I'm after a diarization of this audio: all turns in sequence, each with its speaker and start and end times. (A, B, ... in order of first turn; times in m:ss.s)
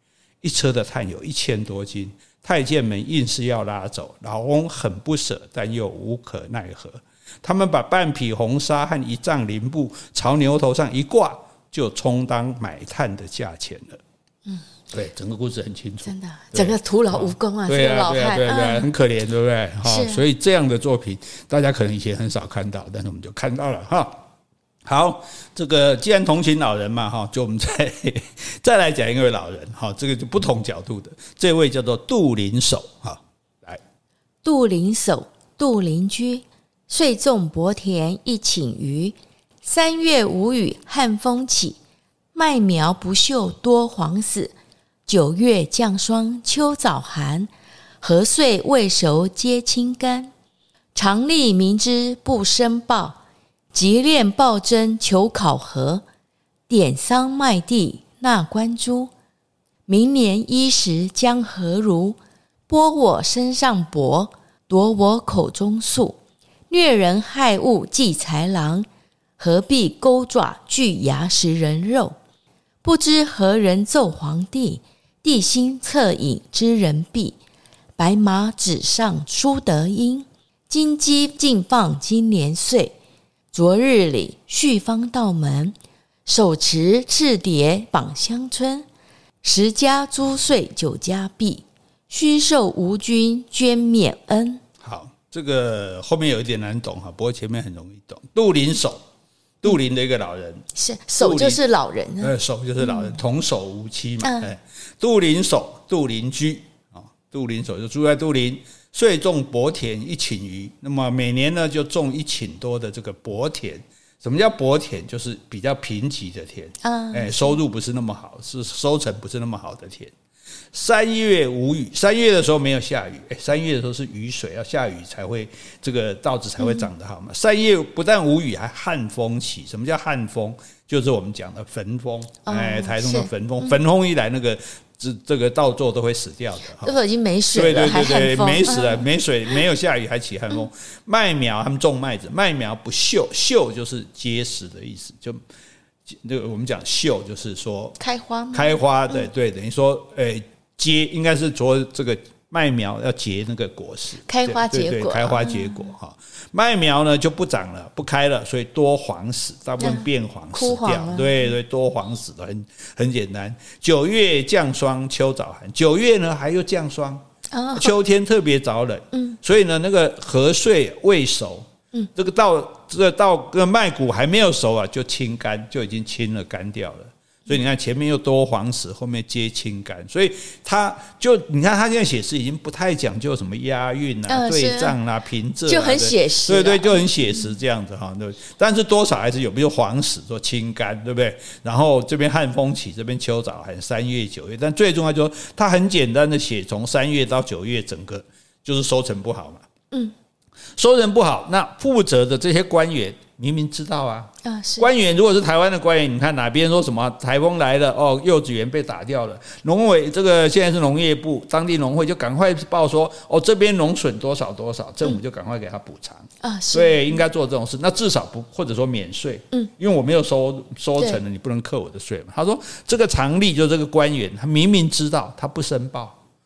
0:00.4-0:14.0 A
0:14.9-0:24.2 A
0:16.0-0:18.9 B
0:19.8-0:20.2 B
0:24.8-0:33.8 A
0:34.4-0:41.8 B
0:42.3-0:44.6 B
0:45.1-0:47.5 B
0:48.0-0:50.3 B
0:51.0-0:53.2 B
0:53.7-0:56.0 B
0:56.7-0:59.1 B
0:59.9-1:02.2 B
1:02.7-1:06.2 B
1:06.7-1:08.9 B
1:09.4-1:12.2 B
1:12.8-1:17.4 B
1:18.0-1:22.9 B
1:23.5-1:25.7 B
1:26.3-1:28.9 B
1:29.4-1:34.6 B
1:34.8-1:39.0 A
1:39.6-1:40.7 A
1:40.8-1:43.2 B
1:41.2-1:41.6 A
1:42.2-2:00.1 A
1:44.2-1:44.5 B
1:56.8-1:57.6 B
2:00.7-2:16.9 A
2:06.6-2:06.9 B
2:12.5-2:13.8 B
2:16.8-2:19.0 B
2:17.5-2:25.4 A
2:26.1-2:28.0 A
2:28.0-2:29.3 B
2:28.5-3:19.7 A
2:34.3-2:35.9 B
2:39.8-2:41.4 B
2:47.5-2:47.9 B
2:49.1-2:49.4 B
3:04.3-3:05.0 B
3:05.7-3:07.1 B
3:20.8-3:46.2 A
3:24.4-3:24.9 B
3:36.4-3:37.2 B